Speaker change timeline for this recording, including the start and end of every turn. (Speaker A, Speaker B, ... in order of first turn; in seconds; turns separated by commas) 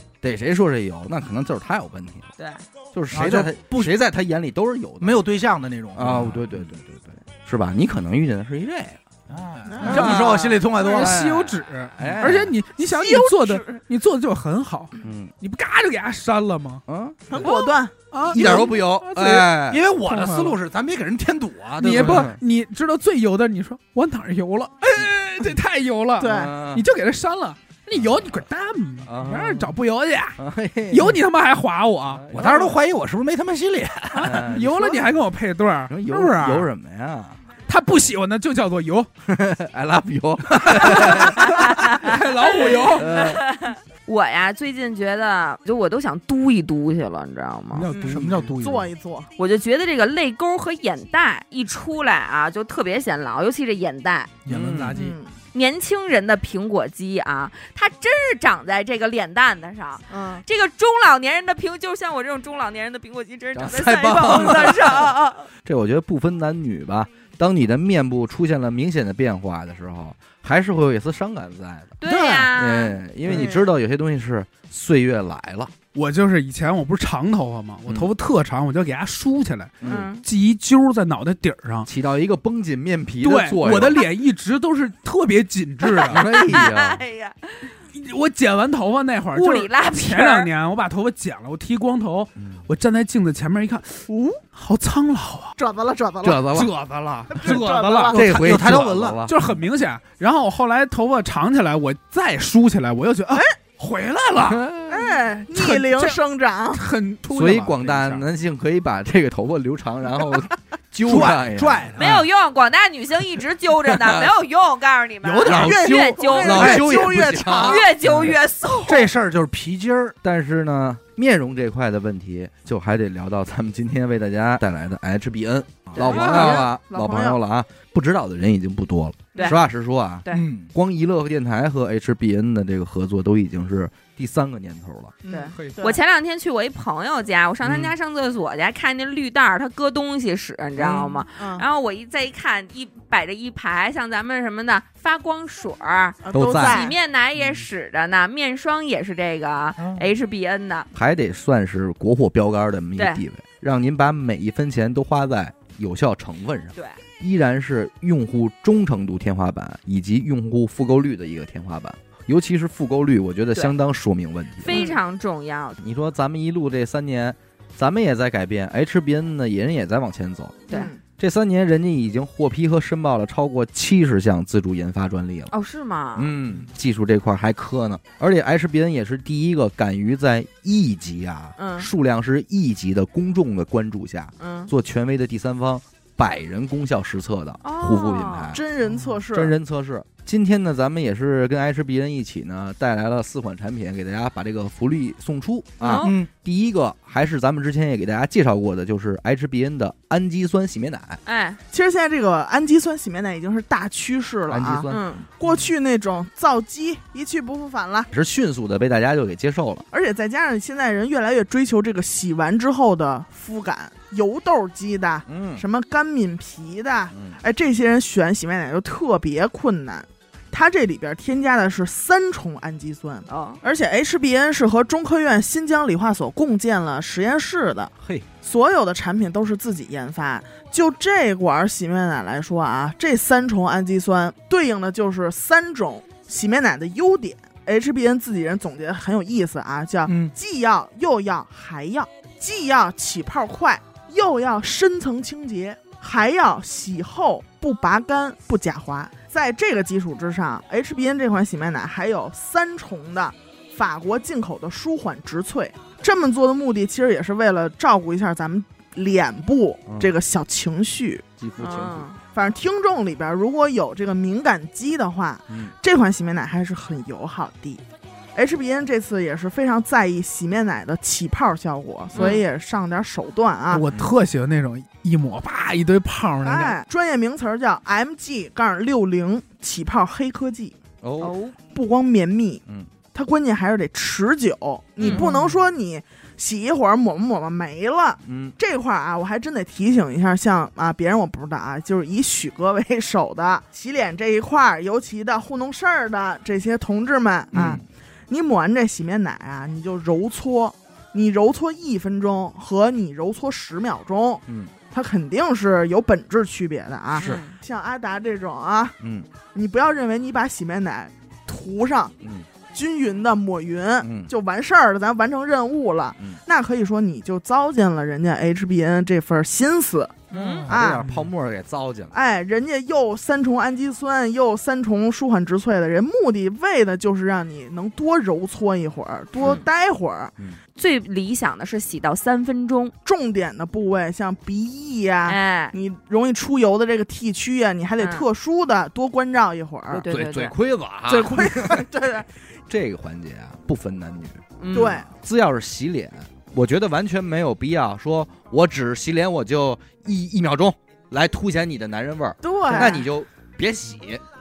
Speaker A: 0.2-2.3, Speaker B: 2.4-2.6, Speaker A: 2.9-5.2, Speaker C: 3.1-3.9, Speaker C: 5.0-6.4, Speaker A: 5.9-9.0, Speaker C: 9.3-11.2, Speaker D: 9.7-10.2, Speaker A: 9.8-12.6, Speaker E: 9.9-16.8, Speaker B: 10.1-10.5, Speaker D: 12.8-13.8, Speaker A: 15.0-15.3, Speaker A: 16.9-17.3, Speaker D: 17.3-17.9, Speaker E: 18.1-19.5, Speaker A: 18.3-19.8, Speaker C: 18.4-18.7, Speaker C: 19.6-22.3, Speaker E: 20.1-20.6, Speaker E: 21.8-32.6, Speaker A: 21.9-22.4, Speaker D: 26.2-26.5, Speaker A: 26.2-26.9, Speaker A: 27.9-28.3, Speaker A: 29.0-29.7, Speaker A: 30.4-31.2, Speaker A: 32.1-32.7, Speaker C: 32.3-34.5, Speaker E: 34.1-36.7, Speaker A: 34.2-35.0, Speaker A: 35.9-37.4, Speaker E: 37.7-39.1, Speaker A: 39.2-41.7, Speaker E: 40.8-43.1, Speaker B: 41.4-47.9, Speaker A: 42.9-43.4, Speaker E: 47.7-48.5, Speaker D: 47.9-49.3, Speaker C: 48.1-48.9, Speaker B: 49.4-54.3, Speaker C: 54.4-55.2, Speaker A: 54.5-55.0, Speaker D: 54.9-55.3, Speaker B: 55.5-65.5, Speaker D: 60.1-60.4, Speaker A: 63.5-65.1, Speaker A: 65.6-72.0, Speaker B: 72.0-73.5, Speaker C: 72.0-72.5, Speaker A: 72.5-75.7, Speaker D: 73.3-73.6, Speaker E: 75.9-81.9, Speaker A: 79.8-80.1, Speaker B: 79.8-80.2, Speaker A: 81.8-84.0, Speaker E: 83.2-86.4, Speaker A: 86.0-87.0, Speaker B: 86.1-87.7, Speaker E: 87.9-95.5, Speaker B: 89.3-90.5, Speaker A: 92.4-92.6, Speaker D: 94.1-94.4, Speaker D: 95.6-96.5, Speaker A: 96.2-96.7, Speaker E: 96.5-98.3, Speaker D: 97.3-98.3, Speaker A: 98.1-99.5, Speaker C: 98.1-99.2, Speaker E: 99.2-104.6, Speaker A: 104.5-105.1, Speaker D: 104.9-106.8, Speaker E: 105.5-106.2, Speaker E: 106.7-108.2, Speaker A: 107.3-111.9, Speaker C: 111.0-112.2, Speaker B: 112.0-116.8, Speaker A: 113.9-114.3, Speaker D: 115.4-117.8, Speaker A: 115.4-118.4, Speaker C: 116.5-117.0, Speaker B: 117.5-119.1, Speaker C: 118.8-120.2, Speaker A: 120.2-135.1, Speaker B: 125.9-126.6, Speaker D: 126.0-127.4, Speaker B: 129.3-129.6, Speaker C: 130.3-130.7, Speaker D: 135.2-136.0, Speaker B: 135.3-150.9, Speaker E: 135.5-135.8, Speaker A: 137.6-137.9, Speaker D: 140.8-141.6, Speaker D: 146.2-146.9, Speaker A: 146.3-146.8, Speaker A: 150.9-164.8, Speaker B: 153.0-153.2, Speaker B: 164.6-165.8, Speaker D: 164.7-165.0, Speaker A: 165.8-175.5, Speaker D: 170.7-171.0, Speaker B: 175.5-176.3, Speaker A: 176.2-188.6, Speaker B: 181.6-181.9, Speaker B: 184.4-184.7, Speaker B: 187.6-188.6, Speaker D: 188.5-189.5, Speaker A: 189.3-201.2, Speaker B: 195.8-196.2, Speaker C: 195.9-196.3, Speaker B: 201.2-201.6, Speaker D: 201.7-208.1, Speaker A: 204.5-205.2, Speaker B: 204.9-205.2, Speaker A: 208.1-209.8, Speaker D: 209.9-261.2, Speaker A: 215.3-215.6, Speaker B: 223.3-223.6, Speaker A: 228.0-228.2, Speaker C: 240.1-240.3, Speaker A: 261.4-262.1, Speaker B: 261.6-262.2, Speaker D: 262.3-267.8, Speaker D: 268.3-273.9, Speaker B: 272.1-272.4, Speaker E: 273.7-276.8, Speaker D: 276.4-280.8, Speaker A: 281.0-281.4, Speaker B: 281.2-281.6, Speaker D: 281.7-308.9, Speaker B: 285.0-285.3, Speaker A: 285.0-285.3, Speaker A: 288.2-288.6, Speaker A: 297.5-297.8, Speaker A: 304.5-304.7, Speaker B: 307.1-307.6, Speaker A: 307.2-307.4, Speaker A: 309.0-309.3, Speaker D: 309.5-312.1, Speaker A: 312.2-312.5, Speaker D: 312.7-321.1, Speaker A: 314.0-314.3, Speaker B: 320.3-320.7, Speaker A: 320.3-322.1, Speaker D: 322.1-330.3, Speaker B: 330.8-332.9, Speaker D: 333.0-340.0, Speaker B: 335.2-335.7, Speaker B: 338.0-338.2, Speaker B: 339.9-340.5, Speaker A: 340.0-341.9, Speaker D: 341.1-342.3, Speaker A: 342.7-354.2, Speaker B: 344.6-345.0, Speaker D: 344.7-345.1, Speaker D: 352.4-353.1